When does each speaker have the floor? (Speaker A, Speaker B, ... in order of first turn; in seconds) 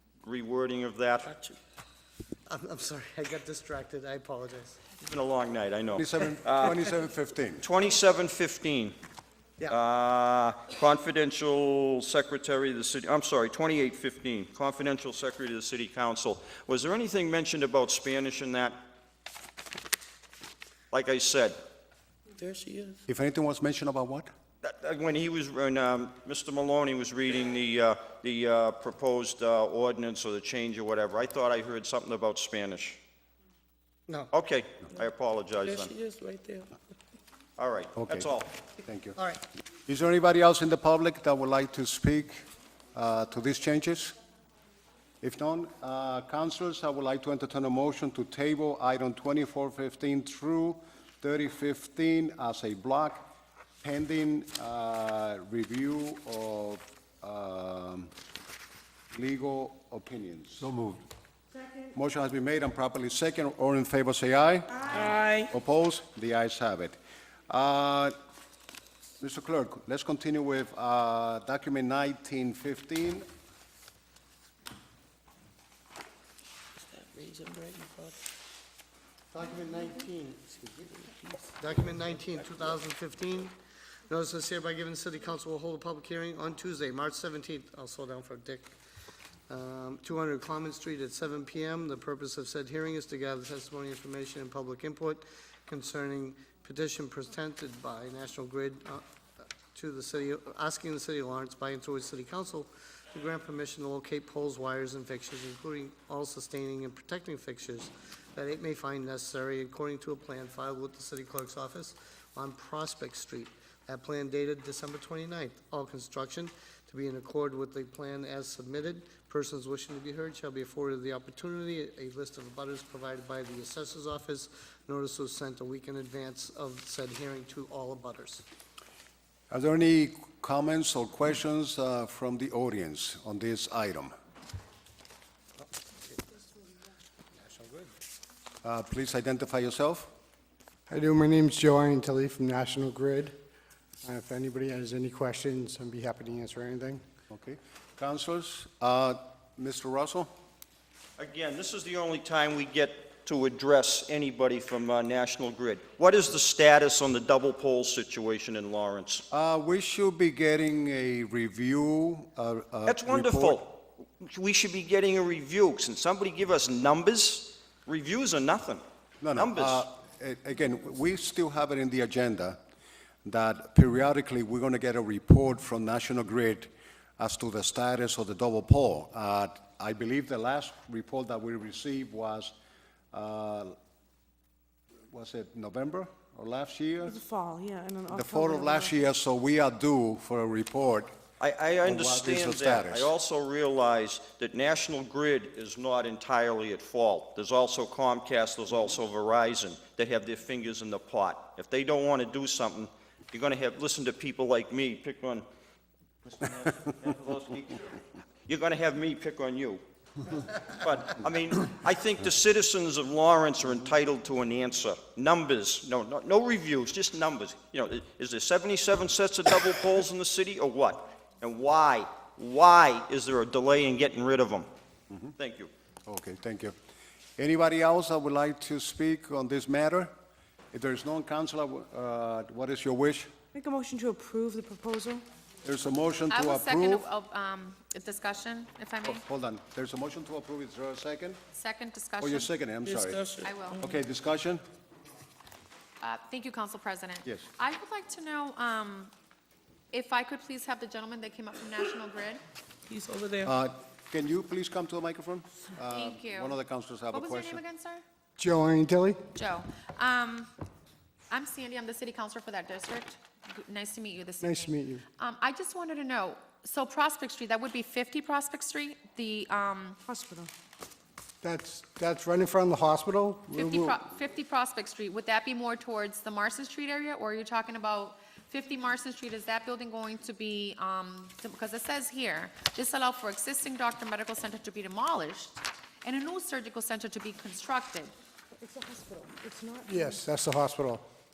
Speaker A: 0.2-1.3, 5.0-6.8, 7.6-8.9, 9.7-18.8, 20.9-21.6, 24.6-33.0, 34.3-35.9, 37.6-38.5, 151.2-159.2, 162.9-168.8, 169.3-169.8, 191.4-205.4, 206.2-209.8, 210.7-224.7, 225.4-225.7
Speaker B: 2.5-4.8, 79.3-80.7, 81.6-83.5, 84.1-88.7, 89.5-99.0, 99.7-128.4
Speaker C: 5.9-7.6, 23.1-24.3, 38.0-38.3, 38.8-39.2, 39.9-44.1, 45.2-53.2, 53.8-58.1, 59.1-61.0, 61.9-67.0, 67.5-68.1, 69.2-73.2, 129.5-134.1, 138.6-140.1, 147.3-150.3, 159.3-163.6, 169.2-172.6, 173.2-182.5, 183.1-183.8, 185.1-187.2, 188.1-191.1, 191.8-193.1, 226.1-226.8, 227.4-230.1, 230.7-233.3, 235.6-237.1, 239.0-241.4, 242.2-243.2, 243.8-244.6, 253.4-257.6
Speaker D: 22.3-23.0, 35.6-36.7, 64.9-65.5, 76.8-78.2, 80.5-81.5, 242.8-243.9, 252.9-253.5
Speaker E: 140.9-143.3, 144.0-147.0, 258.4-259.2, 264.4-265.0, 270.1-270.5, 271.4-274.0, 289.6-291.0
Speaker F: 187.1-188.9, 233.5-235.2, 288.6-290.2
Speaker G: 236.3-239.2, 241.5-242.5, 243.4-243.8, 246.0-249.1, 249.9-252.4, 255.8-256.6, 257.1-258.0, 259.3-260.5, 261.3-270.0, 273.5-288.1